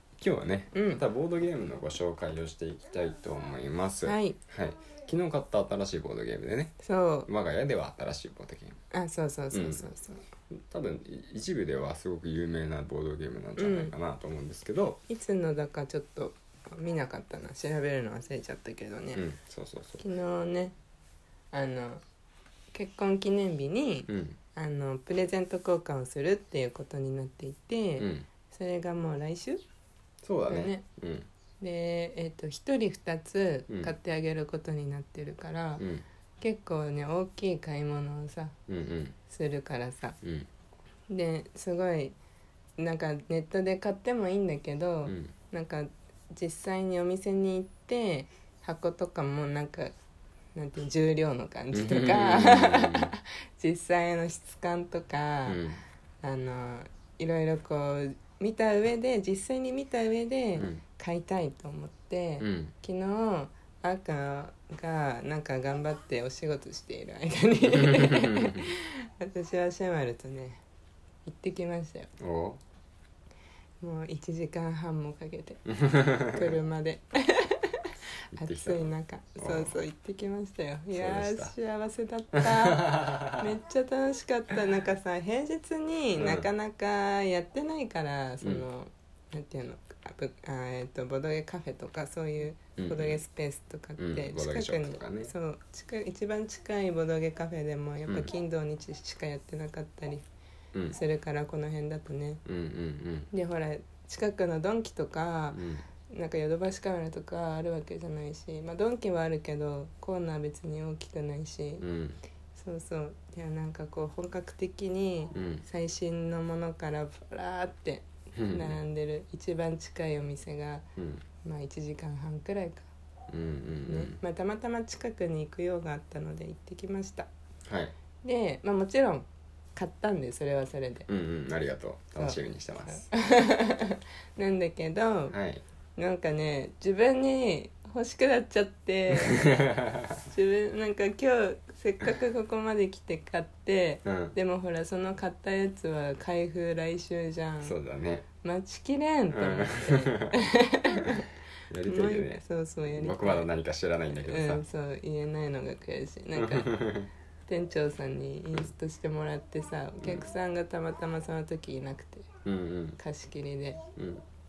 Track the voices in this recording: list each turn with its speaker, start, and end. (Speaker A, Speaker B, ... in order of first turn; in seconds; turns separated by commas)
Speaker A: 0.2-8.8, Speaker B: 0.7-1.0, Speaker B: 4.0-4.4, Speaker B: 6.8-7.3, Speaker B: 8.9-10.2, Speaker A: 9.5-9.9, Speaker A: 10.5-15.0, Speaker B: 13.6-13.9, Speaker B: 15.1-19.2, Speaker A: 19.1-20.0, Speaker B: 20.0-20.7, Speaker B: 21.5-22.0, Speaker B: 22.7-29.6, Speaker A: 24.1-24.4, Speaker A: 28.0-28.3, Speaker A: 30.2-31.3, Speaker B: 30.5-30.8, Speaker B: 31.6-35.8, Speaker A: 35.8-36.0, Speaker B: 36.4-38.5, Speaker A: 38.7-39.1, Speaker B: 39.3-40.2, Speaker A: 40.2-40.5, Speaker B: 41.1-42.1, Speaker B: 42.8-49.9, Speaker A: 45.1-45.3, Speaker B: 50.5-55.6, Speaker A: 51.7-53.1, Speaker A: 55.5-55.8, Speaker B: 56.2-70.6, Speaker A: 62.4-62.7, Speaker A: 67.7-68.7, Speaker B: 71.2-72.1, Speaker A: 72.2-72.6, Speaker B: 73.8-75.6, Speaker A: 75.7-76.6, Speaker B: 76.3-100.2, Speaker A: 78.3-78.9, Speaker A: 79.4-79.8, Speaker A: 80.9-81.5, Speaker A: 82.3-83.5, Speaker A: 86.1-86.5, Speaker A: 92.8-93.2, Speaker A: 94.0-95.3, Speaker B: 100.9-102.4, Speaker A: 102.4-103.3, Speaker B: 103.3-111.8, Speaker A: 105.5-105.8, Speaker A: 111.8-112.2, Speaker B: 112.5-120.8, Speaker A: 115.3-115.6, Speaker A: 118.3-118.8, Speaker A: 121.0-121.2, Speaker B: 121.4-122.9, Speaker A: 123.3-124.2, Speaker B: 123.9-127.3, Speaker A: 127.7-127.9, Speaker B: 128.2-131.1, Speaker A: 131.1-133.0, Speaker B: 132.2-135.3, Speaker A: 135.3-135.6, Speaker B: 136.0-139.6, Speaker A: 139.2-140.2, Speaker B: 140.2-147.7, Speaker A: 144.0-144.3, Speaker A: 147.6-148.2, Speaker B: 148.4-151.3, Speaker A: 149.3-150.4, Speaker A: 151.7-154.6, Speaker B: 151.8-153.5, Speaker B: 154.2-156.7, Speaker A: 156.3-157.1, Speaker B: 157.5-162.3, Speaker A: 162.4-163.0, Speaker B: 163.0-163.8, Speaker A: 164.0-164.2